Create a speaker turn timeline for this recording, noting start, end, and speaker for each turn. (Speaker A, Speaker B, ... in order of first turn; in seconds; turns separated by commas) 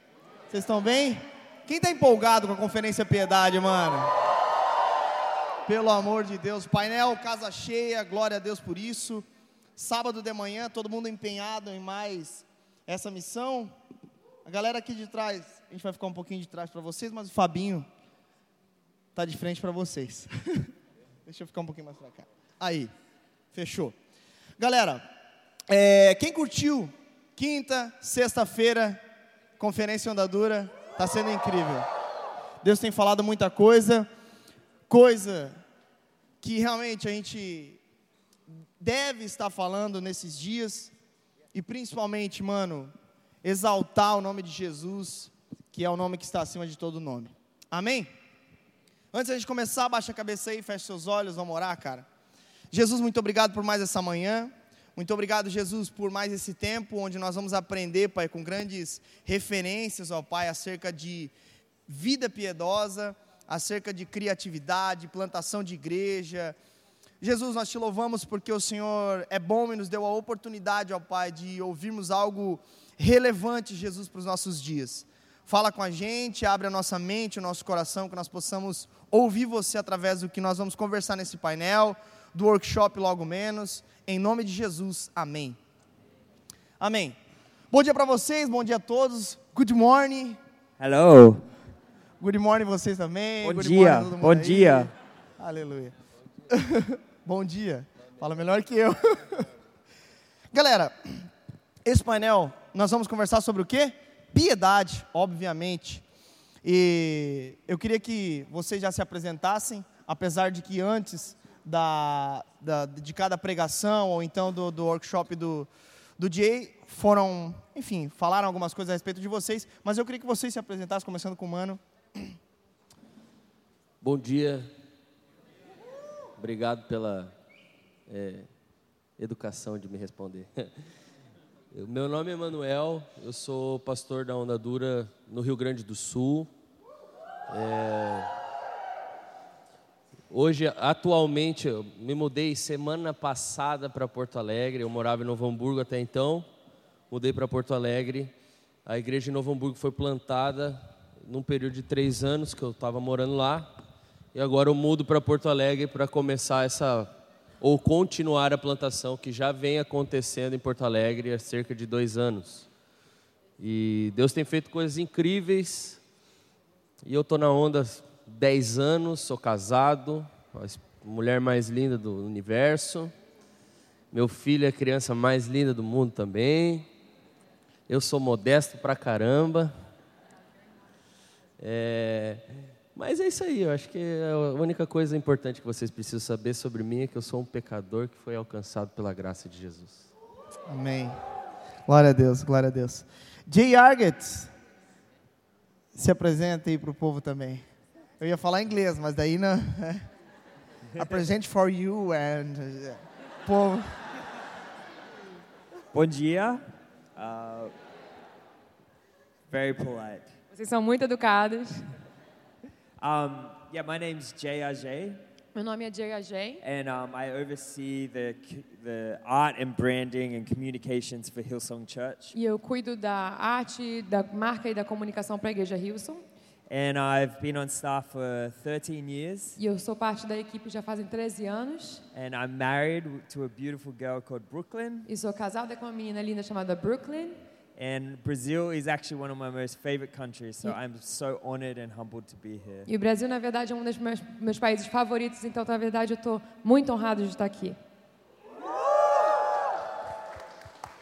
Speaker A: 0.5-4.2, Speaker A: 5.7-9.2, Speaker A: 9.8-13.7, Speaker A: 14.4-17.9, Speaker A: 19.1-20.7, Speaker A: 21.2-22.9, Speaker A: 23.5-23.9, Speaker A: 24.6-25.0, Speaker A: 25.7-29.0, Speaker A: 29.6-31.9, Speaker A: 32.6-34.1, Speaker A: 34.9-35.6, Speaker A: 36.4-37.8, Speaker A: 38.8-40.9, Speaker A: 41.5-42.9, Speaker A: 43.4-48.1, Speaker A: 49.1-52.0, Speaker A: 52.7-61.3, Speaker A: 61.9-66.6, Speaker A: 67.2-85.6, Speaker A: 86.8-87.2, Speaker A: 87.7-90.4, Speaker B: 90.8-91.5, Speaker A: 92.2-95.9, Speaker B: 93.4-94.9, Speaker A: 96.5-99.5, Speaker A: 100.5-101.3, Speaker A: 101.8-106.0, Speaker A: 106.6-122.3, Speaker C: 124.0-124.7, Speaker C: 126.4-127.3, Speaker C: 128.1-128.5, Speaker C: 129.2-130.7, Speaker C: 131.7-136.5, Speaker C: 137.5-138.3, Speaker C: 140.3-146.5, Speaker C: 147.1-148.3, Speaker C: 148.8-153.7, Speaker C: 154.3-162.7, Speaker C: 163.6-166.0, Speaker C: 167.0-173.1, Speaker C: 174.1-176.9, Speaker C: 177.9-179.7, Speaker C: 181.6-190.1, Speaker A: 190.7-191.2, Speaker A: 191.9-194.5, Speaker A: 195.9-197.6, Speaker A: 198.2-200.1, Speaker B: 200.9-201.3, Speaker A: 201.0-204.1, Speaker B: 205.9-206.6, Speaker B: 207.2-207.7, Speaker B: 209.5-210.3, Speaker D: 210.5-211.9, Speaker B: 213.0-215.2, Speaker D: 215.5-216.6, Speaker B: 216.6-222.3, Speaker D: 222.3-226.2, Speaker B: 226.7-229.6, Speaker D: 229.6-232.0, Speaker B: 232.1-235.1, Speaker D: 235.1-237.4, Speaker B: 237.8-242.9, Speaker D: 242.9-247.8